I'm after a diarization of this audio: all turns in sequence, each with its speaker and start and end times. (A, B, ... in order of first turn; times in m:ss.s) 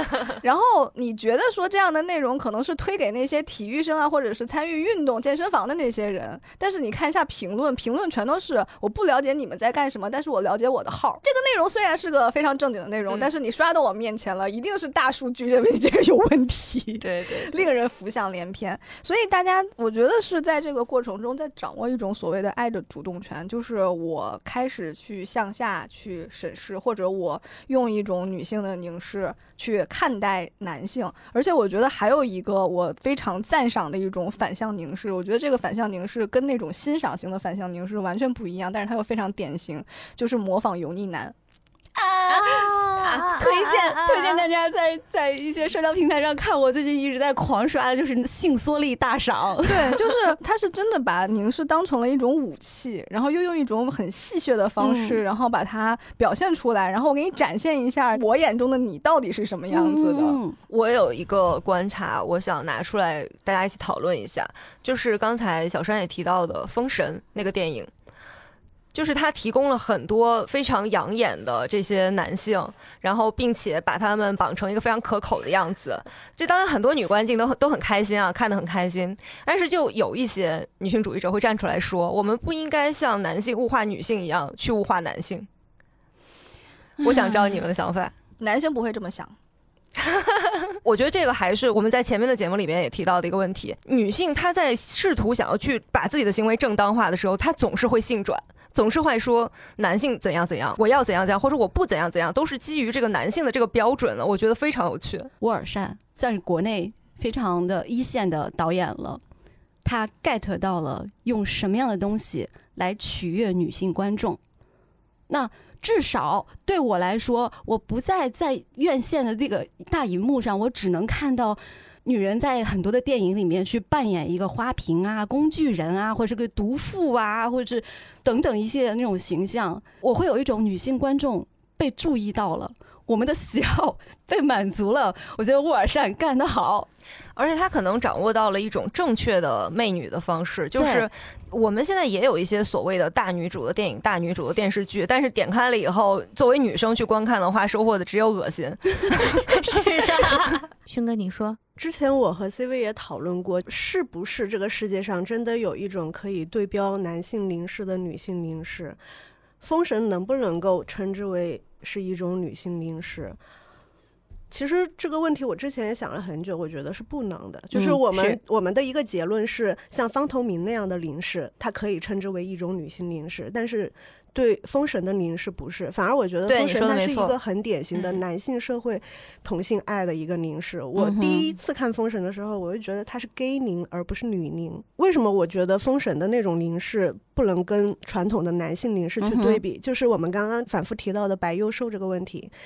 0:00.3-0:41.3 A
0:17.0-0:17.5 B
0:42.0-0:50.0 C
0:42.3-0:44.4 D
0:49.7-1:00.4 A
0:54.8-0:55.2 C
0:59.7-1:00.6 C
1:00.7-1:07.9 B
1:08.9-1:25.5 B
1:27.0-1:28.1 B
1:27.0-1:27.6 C
1:28.4-1:29.3 A
1:30.1-1:45.3 B
1:45.4-1:49.2 C
1:49.8-1:54.4 C
1:55.3-2:16.9 C
2:17.4-2:29.5 B
2:20.8-2:21.0 C
2:29.4-2:31.6 D
2:31.8-2:39.0 E
2:39.6-2:43.4 E
2:44.5-3:12.5 E
2:47.7-2:48.4 C
2:56.5-2:57.3 B
2:57.9-2:58.2 B
3:01.0-3:01.5 C
3:09.2-3:09.6 C